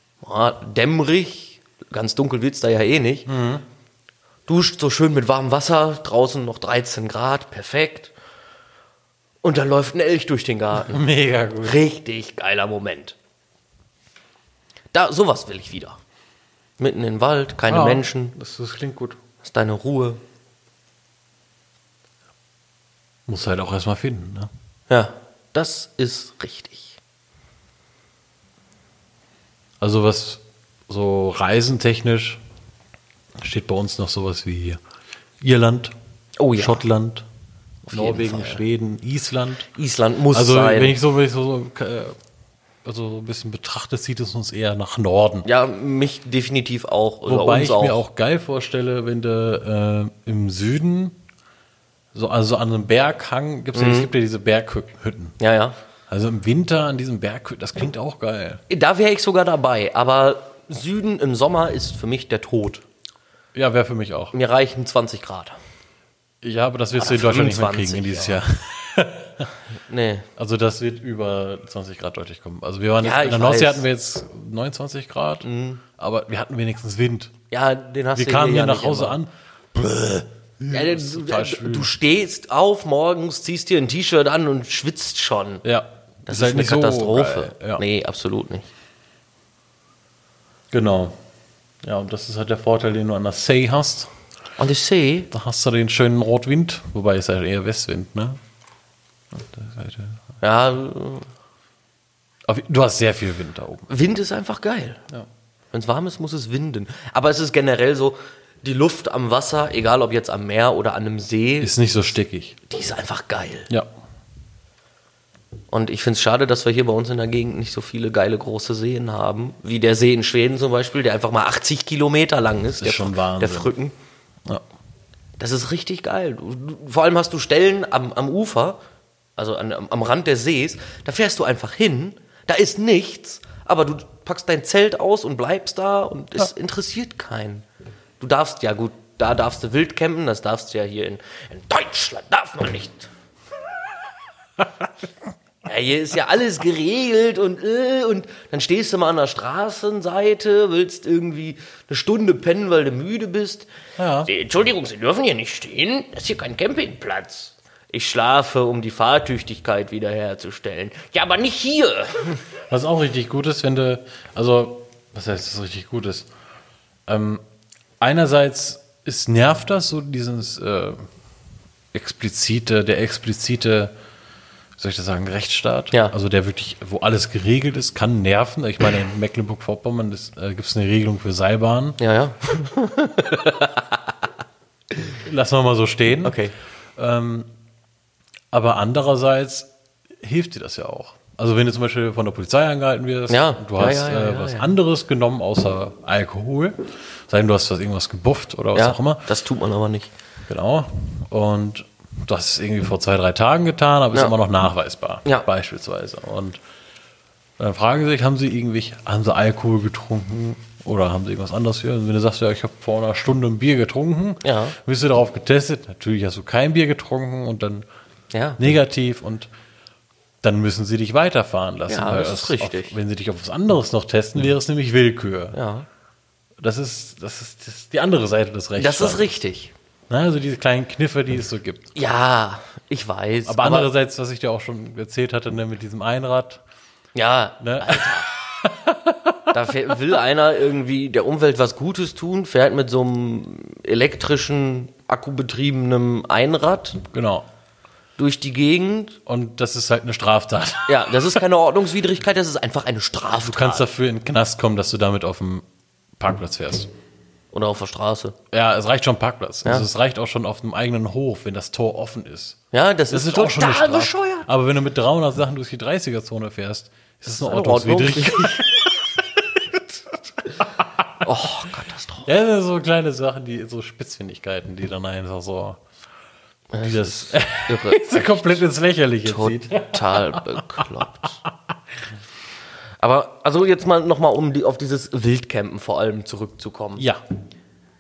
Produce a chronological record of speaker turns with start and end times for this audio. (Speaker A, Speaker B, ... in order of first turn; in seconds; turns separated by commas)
Speaker A: 0.2-3.3, Speaker B: 3.3-3.6, Speaker A: 4.5-8.1, Speaker A: 9.4-11.0, Speaker B: 10.8-11.8, Speaker A: 11.6-13.2, Speaker A: 14.9-16.0, Speaker A: 16.8-18.4, Speaker B: 17.7-19.2, Speaker A: 19.4-20.2, Speaker B: 23.3-24.5, Speaker A: 24.9-27.0, Speaker B: 29.8-32.4, Speaker B: 33.4-34.8, Speaker B: 35.4-35.9, Speaker A: 36.4-36.8, Speaker B: 36.5-37.3, Speaker A: 37.9-38.6, Speaker B: 37.9-39.7, Speaker A: 39.7-41.0, Speaker B: 40.3-42.1, Speaker B: 42.8-45.5, Speaker A: 45.4-48.0, Speaker B: 47.2-51.1, Speaker B: 52.1-55.4, Speaker A: 53.7-54.1, Speaker A: 55.4-55.8, Speaker B: 56.1-58.6, Speaker A: 58.7-62.8, Speaker B: 63.5-64.3, Speaker A: 64.3-65.6, Speaker B: 66.4-69.5, Speaker A: 67.0-68.4, Speaker A: 69.9-70.3, Speaker B: 70.4-75.5, Speaker A: 73.0-73.8, Speaker A: 75.4-75.8, Speaker B: 76.0-77.3, Speaker A: 77.5-79.2, Speaker B: 78.1-81.9, Speaker A: 80.7-85.6, Speaker B: 85.6-87.8, Speaker A: 86.3-88.7, Speaker B: 90.7-91.2, Speaker B: 91.8-94.1, Speaker A: 94.6-95.3, Speaker B: 95.3-98.4, Speaker B: 99.3-100.2, Speaker A: 100.4-101.3, Speaker B: 102.5-103.9, Speaker A: 103.9-105.0, Speaker A: 105.7-111.7, Speaker B: 111.6-112.6, Speaker A: 112.7-113.7, Speaker A: 115.7-123.9, Speaker B: 122.8-123.7, Speaker A: 125.4-128.8, Speaker A: 129.4-137.6, Speaker A: 138.2-143.1, Speaker A: 145.6-153.7, Speaker B: 154.0-154.3, Speaker A: 154.2-162.4, Speaker B: 162.7-166.3, Speaker B: 167.1-167.4, Speaker B: 168.0-171.1, Speaker B: 171.9-173.9, Speaker B: 174.8-182.0, Speaker A: 182.0-184.0, Speaker B: 185.2-186.4, Speaker A: 186.2-186.5, Speaker B: 186.9-187.5, Speaker B: 188.5-199.3, Speaker A: 193.3-194.7, Speaker A: 198.7-200.1, Speaker B: 200.5-206.6, Speaker B: 207.6-217.8, Speaker A: 214.4-214.8, Speaker A: 218.3-218.6, Speaker B: 218.6-219.5, Speaker B: 220.4-225.6, Speaker A: 221.9-222.9, Speaker A: 225.5-225.9, Speaker B: 226.6-229.2, Speaker A: 228.8-229.7, Speaker B: 230.1-231.9, Speaker A: 231.9-233.9, Speaker B: 233.4-236.6, Speaker A: 237.1-238.3, Speaker B: 237.6-239.9, Speaker A: 239.5-247.0, Speaker B: 247.1-247.5, Speaker A: 248.2-249.2, Speaker B: 249.2-251.4, Speaker A: 250.9-253.9, Speaker B: 253.4-255.6, Speaker B: 256.2-256.9, Speaker A: 257.5-258.4, Speaker B: 258.5-269.0, Speaker A: 262.7-264.5, Speaker A: 267.3-268.8, Speaker B: 270.6-271.1, Speaker A: 271.2-272.3, Speaker B: 272.2-275.8, Speaker A: 276.7-278.5, Speaker B: 276.8-281.5, Speaker A: 279.2-281.4, Speaker A: 283.0-287.1, Speaker B: 287.0-287.2